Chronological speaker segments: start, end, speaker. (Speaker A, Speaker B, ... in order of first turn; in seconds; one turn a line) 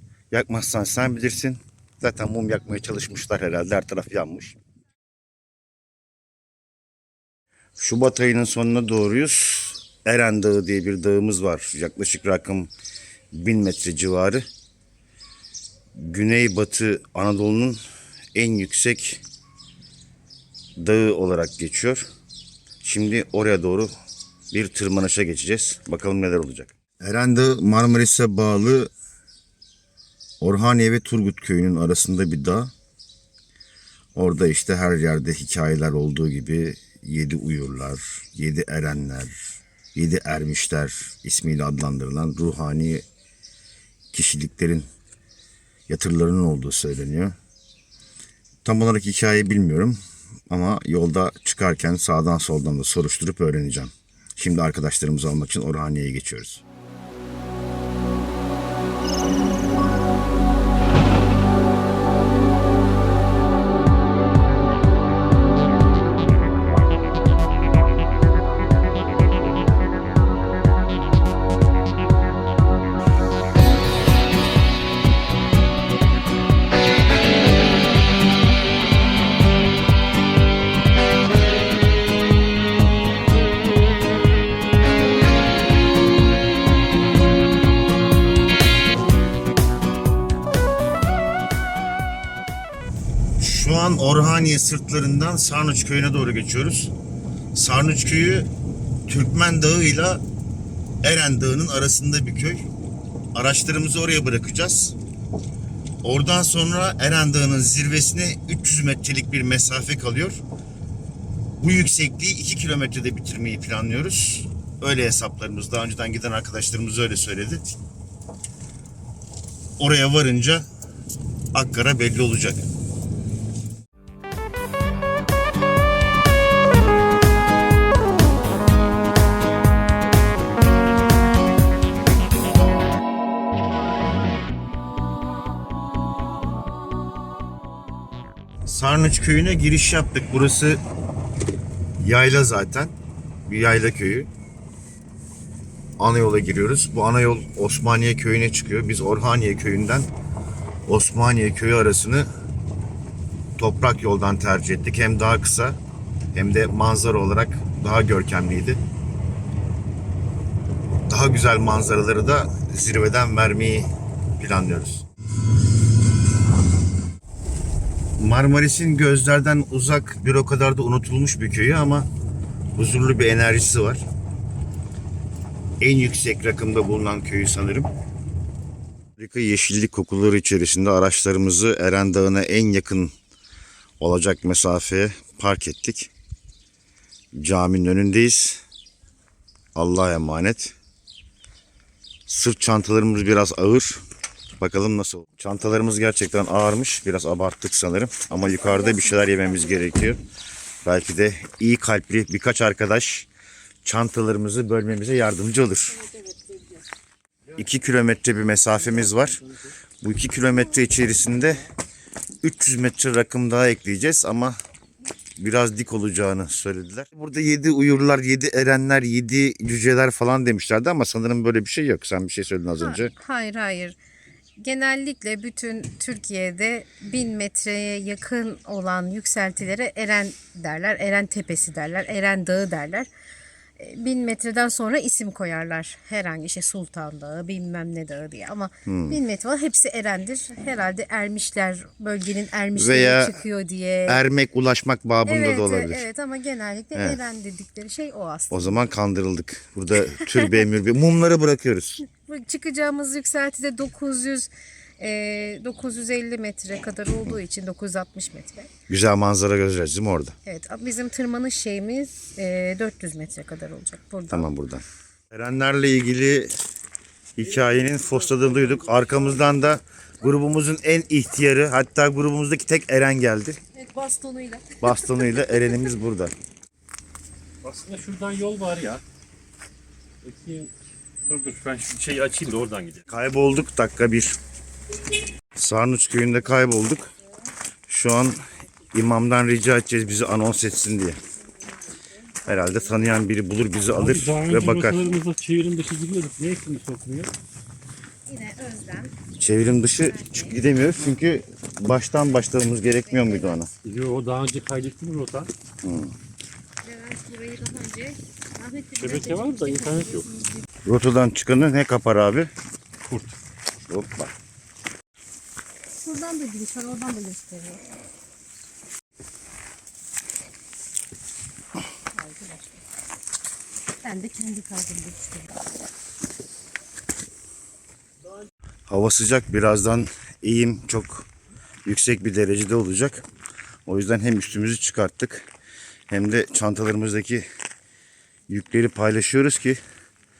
Speaker A: 0.3-4.6
Speaker A: 7.8-12.7
Speaker A: 13.3-14.4
Speaker A: 16.0-17.8
Speaker A: 18.4-19.2
Speaker A: 20.8-22.1
Speaker A: 22.8-23.9
Speaker A: 24.5-28.9
Speaker A: 30.4-32.7
Speaker A: 34.1-39.3
Speaker A: 40.0-43.0
Speaker A: 44.1-44.9
Speaker A: 45.9-47.4
Speaker A: 48.6-50.0
Speaker A: 50.5-56.6
Speaker A: 93.4-96.9
Speaker A: 97.5-98.5
Speaker A: 99.1-100.2
Speaker A: 101.0-102.7
Speaker A: 103.3-105.0
Speaker A: 106.0-110.4
Speaker A: 111.6-117.7
Speaker A: 119.8-120.7
Speaker A: 121.5-122.7
Speaker A: 138.7-140.8
Speaker A: 142.0-142.9
Speaker A: 143.5-144.3
Speaker A: 146.0-150.1
Speaker A: 150.9-152.3
Speaker A: 153.6-155.8
Speaker A: 156.3-158.8
Speaker A: 161.1-165.1
Speaker A: 168.2-172.1
Speaker A: 172.8-174.0
Speaker A: 175.8-177.9
Speaker A: 179.2-183.1
Speaker A: 184.0-186.1
Speaker A: 187.3-188.6
Speaker A: 189.8-190.8
Speaker A: 192.3-194.0
Speaker A: 194.6-200.2
Speaker B: 198.5-199.4
Speaker A: 200.8-203.3
Speaker A: 203.8-206.0
Speaker A: 207.6-209.4
Speaker C: 208.8-209.5
Speaker A: 210.0-211.7
Speaker A: 212.4-214.6
Speaker A: 215.4-223.1
Speaker B: 222.8-224.0
Speaker B: 224.6-233.1
Speaker B: 233.8-244.2
Speaker A: 238.9-239.2
Speaker A: 242.8-243.4
Speaker A: 244.1-246.1
Speaker B: 245.2-248.8
Speaker A: 246.9-247.2
Speaker A: 248.5-252.0
Speaker B: 250.2-250.5
Speaker B: 252.1-258.7
Speaker A: 258.9-260.4
Speaker B: 260.4-264.5
Speaker A: 264.3-266.5
Speaker A: 267.4-273.6
Speaker C: 267.4-269.7
Speaker B: 273.8-275.8
Speaker A: 274.8-276.3
Speaker C: 277.6-279.0
Speaker C: 280.2-280.7
Speaker C: 281.2-283.0
Speaker A: 283.1-284.4
Speaker A: 285.6-287.1
Speaker A: 287.9-291.2
Speaker A: 292.4-295.1
Speaker C: 293.9-297.3
Speaker B: 298.3-299.2
Speaker A: 299.4-303.7
Speaker B: 300.0-300.6
Speaker B: 303.1-303.7
Speaker C: 303.8-305.5
Speaker A: 305.8-306.1
Speaker B: 306.8-310.3
Speaker C: 308.9-310.4
Speaker A: 310.9-312.5
Speaker C: 313.1-313.4
Speaker A: 313.8-314.3
Speaker B: 316.0-317.8
Speaker B: 322.1-322.8
Speaker B: 324.0-325.5
Speaker A: 328.9-331.3
Speaker A: 331.9-333.2
Speaker A: 333.9-335.5
Speaker A: 336.1-337.5
Speaker A: 338.5-339.8